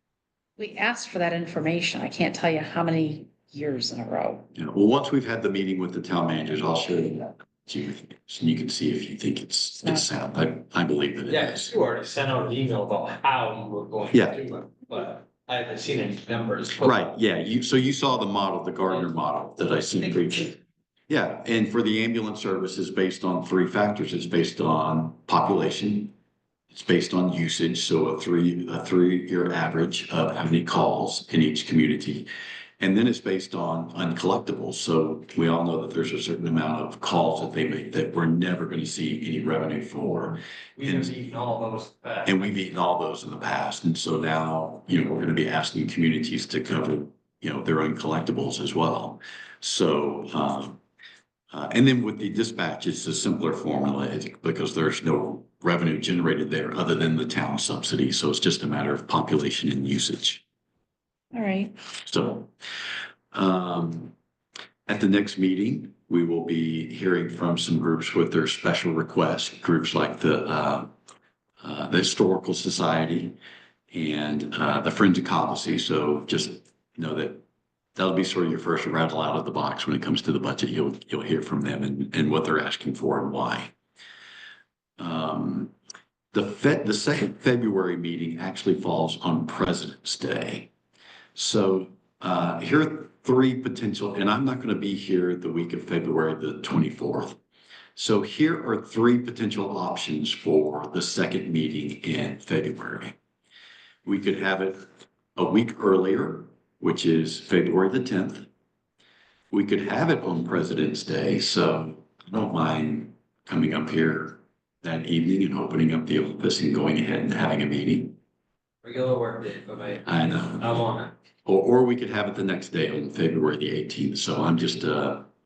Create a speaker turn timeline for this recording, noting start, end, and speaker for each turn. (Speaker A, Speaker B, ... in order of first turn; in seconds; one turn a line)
Speaker A: 0.6-4.5
Speaker B: 4.5-11.7
Speaker C: 11.3-17.0
Speaker B: 14.1-14.4
Speaker B: 16.8-20.6
Speaker B: 21.1-26.1
Speaker B: 26.7-32.3
Speaker B: 32.8-41.2
Speaker C: 40.8-42.5
Speaker B: 42.2-50.8
Speaker B: 51.5-60.4
Speaker A: 61.3-61.8
Speaker B: 62.0-62.5
Speaker B: 63.3-64.1
Speaker B: 64.9-70.9
Speaker B: 71.6-73.4
Speaker B: 73.9-77.4
Speaker B: 78.0-83.7
Speaker B: 85.0-85.7
Speaker B: 86.3-90.7
Speaker B: 91.3-97.4
Speaker B: 98.0-103.2
Speaker B: 104.0-108.5
Speaker B: 109.5-118.2
Speaker C: 118.8-121.1
Speaker B: 120.1-120.7
Speaker B: 121.5-125.3